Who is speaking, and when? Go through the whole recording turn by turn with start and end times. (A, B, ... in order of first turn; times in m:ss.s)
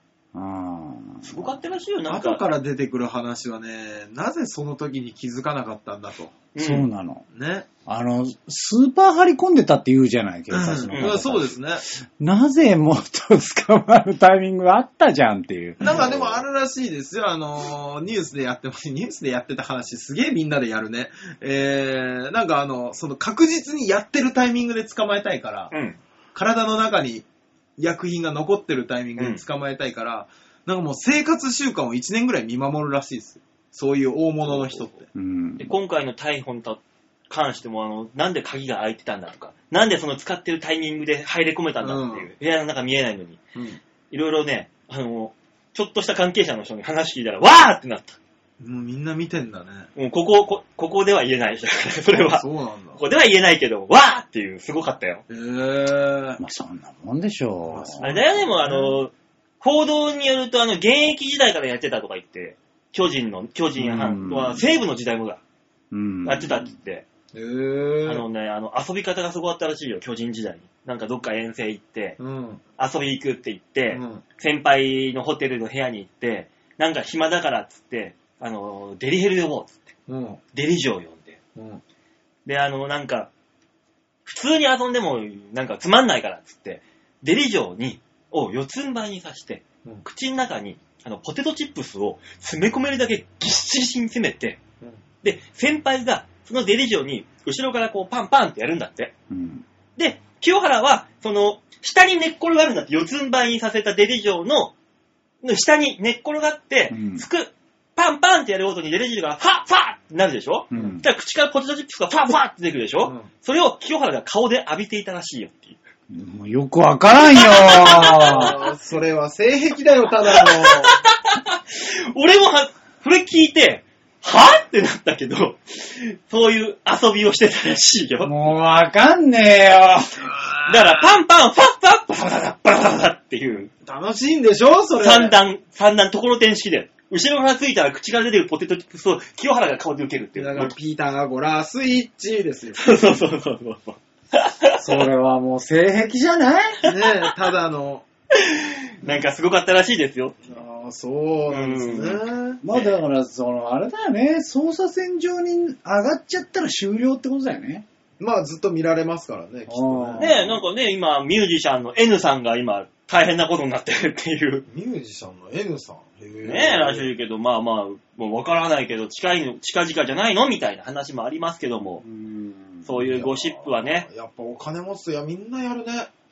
0:00.3-0:01.6 A
0:01.2-0:02.4 B
0:02.1-0:06.5 C
0:06.6-0:06.9 B
0:06.6-0:07.2 A
0:07.3-0:07.7 C
0:07.9-0:16.4 A
0:10.5-0:11.8 C
0:10.9-0:11.2 B
0:15.8-0:25.7 C
0:25.7-0:26.0 B
0:26.3-0:27.3 C
0:27.8-0:35.0 C
0:34.6-0:34.9 B
0:35.1-0:35.7 A
0:35.6-0:43.4 B
0:41.8-0:42.3 C
0:43.6-0:43.8 C
0:44.1-0:48.2 B
0:48.6-0:49.9 C
0:50.0-0:52.4 B
0:52.1-0:53.0 C
0:53.0-0:55.2 B
0:55.3-0:56.4 C
0:56.4-0:58.1 A
0:57.7-0:59.0 C
0:58.0-1:05.4 B
1:03.8-1:04.6 A
1:05.9-1:06.7 A
1:06.2-1:07.0 B
1:07.3-1:08.3 C
1:08.0-1:12.2 B
1:12.2-1:12.6 C
1:12.8-1:19.9 B
1:13.9-1:14.2 C
1:20.1-1:20.4 C
1:20.5-1:21.4 B
1:21.6-1:21.8 C
1:22.5-1:23.3 B
1:24.3-1:34.6 B
1:35.2-1:39.1 B
1:39.3-1:39.6 A
1:40.0-1:44.7 B
1:45.4-1:55.8 B
1:46.9-1:47.2 A
1:50.7-1:51.0 A
1:53.0-1:53.3 C
1:56.1-1:58.5 A
1:57.2-1:58.6 B
1:57.9-2:01.0 C
2:00.4-2:08.4 B
2:08.2-2:10.3 A
2:10.3-2:11.0 C
2:10.6-2:13.7 B
2:13.8-2:15.4 C
2:15.0-2:20.7 B
2:20.4-2:23.2 C
2:22.8-2:25.1 B
2:24.8-2:26.8 A
2:26.8-2:28.1 C
2:26.8-2:27.1 B
2:28.3-2:30.4 B
2:30.4-2:32.6 C
2:31.5-2:33.0 B
2:32.6-2:37.9 A
2:38.2-2:40.5 C
2:39.7-2:40.6 A
2:40.2-2:44.6 B
2:44.7-2:47.1 C
2:46.4-2:52.0 B
2:52.0-2:52.9 A
2:52.8-2:54.1 B
2:53.0-2:56.1 C